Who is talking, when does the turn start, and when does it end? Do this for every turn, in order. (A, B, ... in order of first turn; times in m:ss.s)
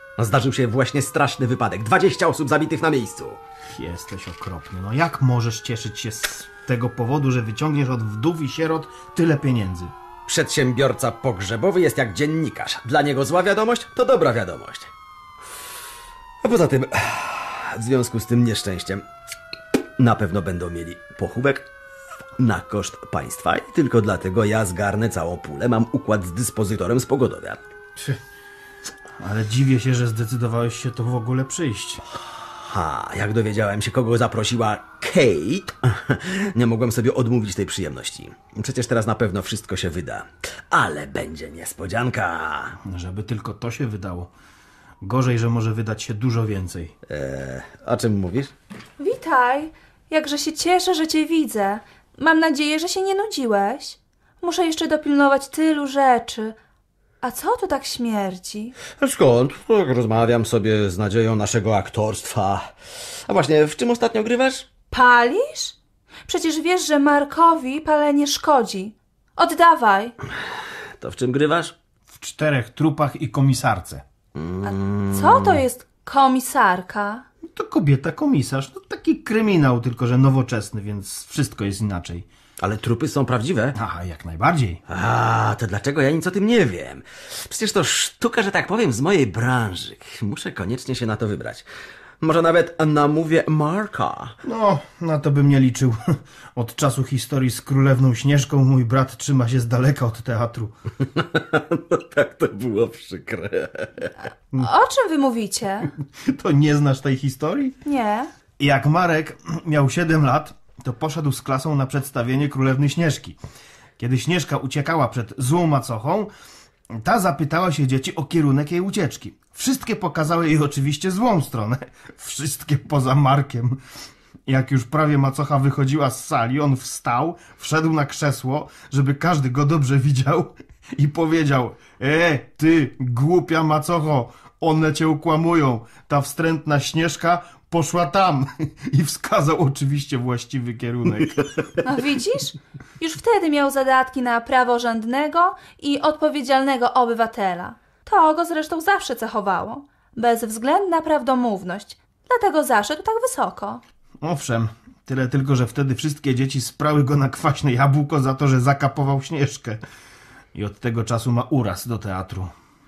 0:00.2-0:03.4 A
0:03.7-0:09.9 B
0:10.3-0:14.9 A
0:16.4-0:19.0 A
0:20.0-0:21.7 A
0:22.4-0:27.6 A
0:29.2-0:32.0 B
0:32.6-0:42.8 A
0:42.8-0:44.3 B
0:45.0-0:46.9 B
0:47.1-0:48.5 A
0:49.0-0:56.6 C
0:57.2-0:58.8 C
0:59.0-1:02.7 A
1:03.2-1:04.7 A
1:04.9-1:05.8 C
1:06.3-1:10.1 C
1:11.0-1:11.7 A
1:12.1-1:14.0 B
1:14.3-1:15.6 A
1:14.6-1:17.2 C
1:17.4-1:22.3 B
1:22.6-1:23.8 A
1:23.7-1:24.8 B
1:24.9-1:31.6 A
1:32.2-1:34.4 A
1:34.4-1:40.7 B
1:41.2-1:44.1 A
1:44.5-1:45.9 C
1:46.0-1:47.8 B
1:47.8-1:48.3 C
1:48.6-1:53.4 B
1:54.0-1:56.3 B
1:56.9-2:03.8 B
2:04.4-2:21.7 B
2:21.8-2:33.8 C
2:34.2-2:39.8 B
2:40.5-2:42.5 B